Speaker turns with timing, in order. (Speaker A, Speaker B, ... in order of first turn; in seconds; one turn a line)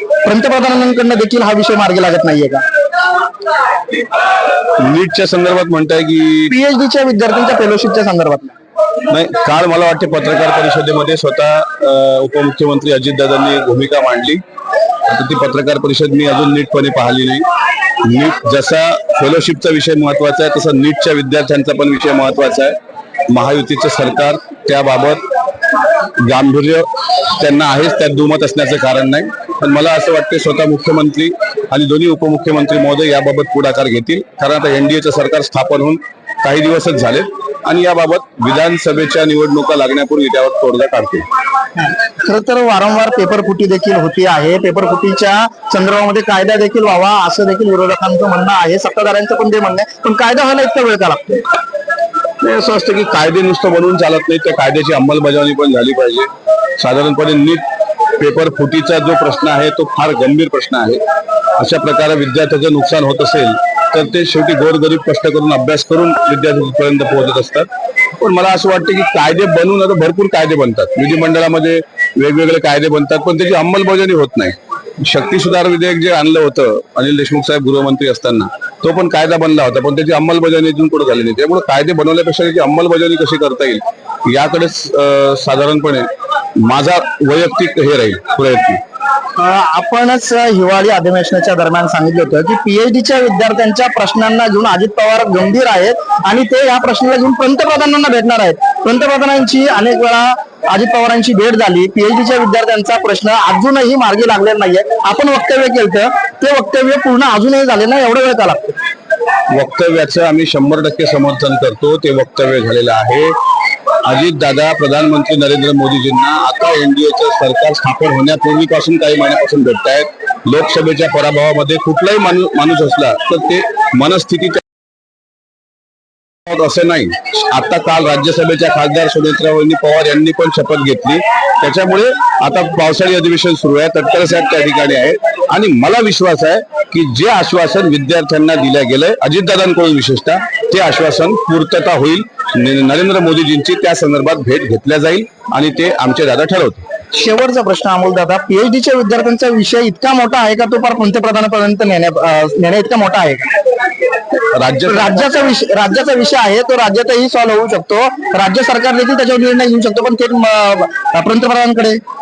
Speaker A: 0.2-2.6
Speaker B: 4.8-6.5
Speaker A: 6.5-8.5
Speaker B: 9.1-14.4
Speaker B: 15.1-17.4
Speaker B: 18.0-22.8
Speaker B: 23.3-25.2
Speaker B: 26.2-41.3
Speaker A: 41.8-51.5
Speaker B: 52.4-57.6
Speaker B: 58.2-61.0
Speaker B: 61.6-67.7
Speaker B: 68.2-88.8
Speaker A: 89.3-108.7
Speaker B: 109.5-113.3
Speaker B: 114.0-124.6
Speaker B: 126.5-146.8
Speaker A: 147.1-153.5
Speaker B: 154.5-155.2
Speaker A: 154.8-162.0